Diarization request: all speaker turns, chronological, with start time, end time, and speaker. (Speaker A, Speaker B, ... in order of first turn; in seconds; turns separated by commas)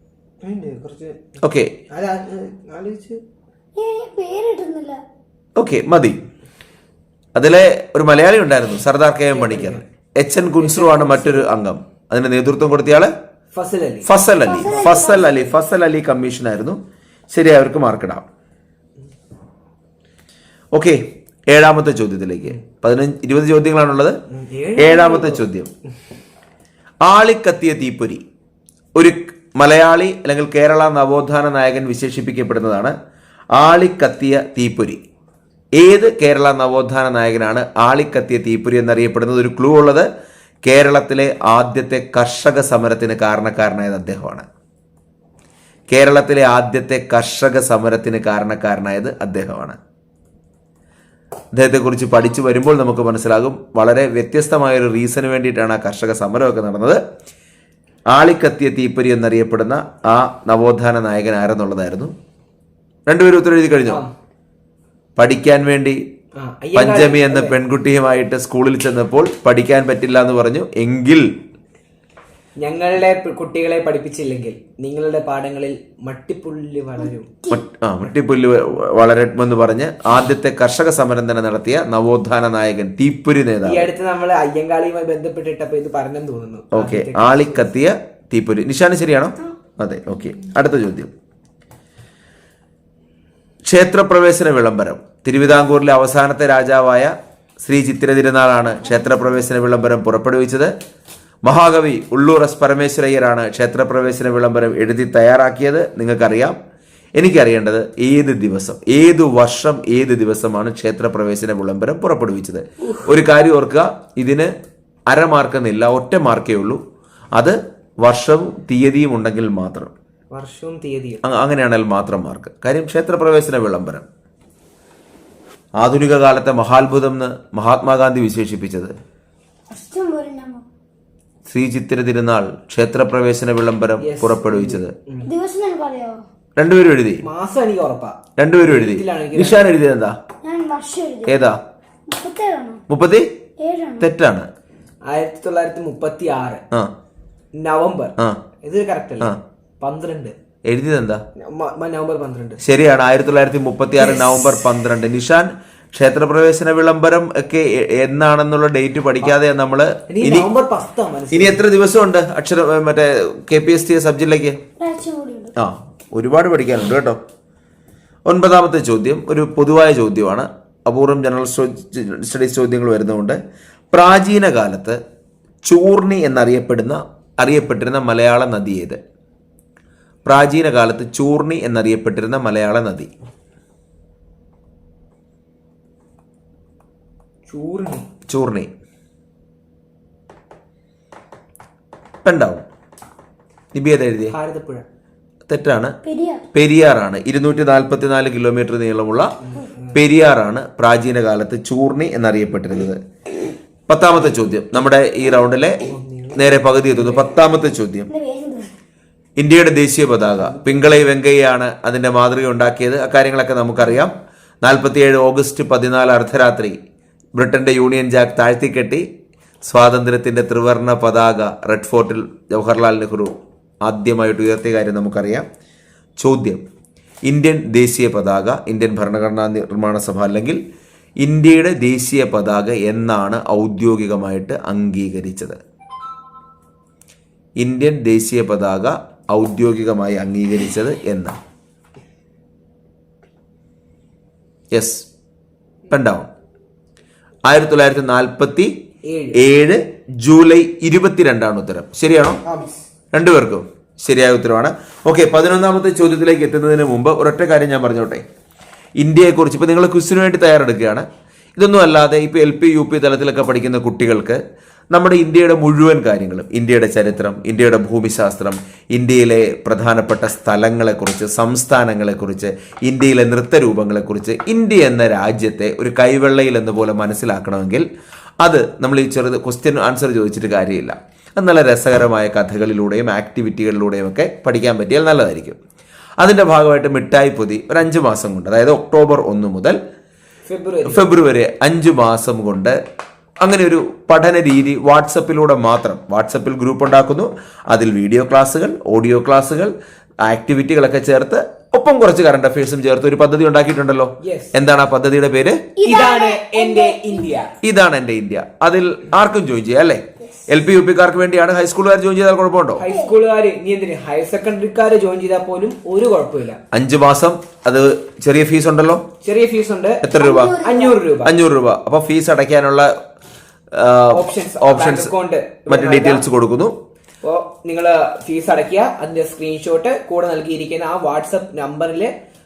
Speaker A: 0.4-1.3, Speaker B: 1.4-1.7, Speaker A: 1.9-3.2, Speaker C: 3.8-5.0, Speaker B: 5.6-6.2, Speaker B: 7.3-13.1, Speaker A: 9.3-9.9, Speaker A: 10.6-11.5, Speaker A: 13.5-14.1, Speaker B: 14.1-16.8, Speaker C: 14.4-15.6, Speaker A: 14.6-15.1, Speaker B: 17.3-18.2, Speaker B: 20.7-24.2, Speaker A: 24.3-25.4, Speaker B: 24.8-25.7, Speaker B: 27.0-28.2, Speaker B: 29.0-33.0, Speaker B: 33.5-35.0, Speaker B: 35.8-40.1, Speaker B: 40.6-44.5, Speaker B: 45.9-49.8, Speaker B: 51.5-57.0, Speaker B: 58.1-62.1, Speaker B: 63.1-64.0, Speaker A: 63.9-64.1, Speaker B: 65.2-66.0, Speaker A: 66.4-67.5, Speaker B: 66.8-71.3, Speaker A: 72.6-77.3, Speaker C: 77.1-77.6, Speaker B: 77.5-83.9, Speaker A: 83.6-87.7, Speaker B: 86.7-91.1, Speaker B: 93.7-100.7, Speaker B: 101.5-106.6, Speaker B: 107.2-114.5, Speaker B: 115.1-116.8, Speaker B: 117.4-119.9, Speaker A: 120.3-121.2, Speaker B: 121.2-124.0, Speaker B: 125.8-128.9, Speaker C: 129.7-130.6, Speaker B: 131.5-134.9, Speaker A: 134.0-135.3, Speaker C: 135.2-136.2, Speaker B: 136.6-137.2, Speaker A: 137.2-139.6, Speaker B: 138.4-140.2, Speaker C: 140.4-141.4, Speaker B: 141.2-141.6, Speaker C: 142.1-142.8, Speaker B: 142.9-143.3, Speaker C: 143.6-144.1, Speaker B: 144.0-144.5, Speaker A: 145.1-146.6, Speaker A: 147.6-150.3, Speaker B: 150.7-151.2, Speaker A: 151.4-152.6, Speaker B: 152.6-160.5, Speaker A: 160.1-161.6, Speaker B: 161.3-164.6, Speaker C: 164.8-165.5, Speaker B: 165.6-167.2, Speaker B: 168.2-173.4, Speaker B: 173.9-175.0, Speaker B: 175.7-179.0, Speaker B: 180.2-183.1, Speaker A: 187.5-188.1, Speaker B: 188.3-188.7, Speaker B: 192.2-192.6, Speaker B: 193.7-194.3, Speaker A: 194.3-194.9, Speaker B: 195.5-195.9, Speaker C: 196.0-196.4, Speaker B: 196.5-199.3, Speaker A: 199.4-199.9, Speaker B: 199.9-203.0, Speaker B: 203.9-208.1, Speaker A: 205.8-207.3, Speaker C: 208.1-208.7, Speaker B: 209.4-216.8, Speaker A: 210.4-210.9, Speaker B: 217.4-219.1, Speaker B: 219.6-225.5, Speaker B: 226.2-226.6, Speaker B: 227.3-230.6, Speaker B: 231.2-235.6, Speaker B: 237.6-241.4, Speaker B: 244.7-245.1, Speaker B: 245.9-246.3, Speaker B: 247.5-248.7, Speaker A: 249.1-249.4, Speaker B: 249.3-252.4, Speaker B: 253.1-258.2, Speaker B: 259.0-261.1, Speaker B: 261.6-277.9, Speaker B: 278.4-285.6, Speaker B: 286.2-289.8, Speaker A: 290.5-291.1, Speaker B: 290.9-292.8, Speaker B: 293.4-299.7, Speaker B: 300.2-305.7, Speaker A: 304.2-304.5, Speaker C: 305.8-307.5, Speaker A: 305.8-307.5, Speaker B: 307.6-312.9, Speaker A: 312.8-316.6, Speaker C: 312.9-313.1, Speaker B: 316.7-319.0, Speaker A: 319.2-320.1, Speaker B: 320.0-320.6, Speaker C: 320.2-321.0, Speaker A: 320.6-321.4, Speaker B: 321.2-322.9, Speaker B: 323.7-325.1, Speaker A: 324.1-326.2, Speaker B: 325.7-326.8, Speaker A: 327.2-332.1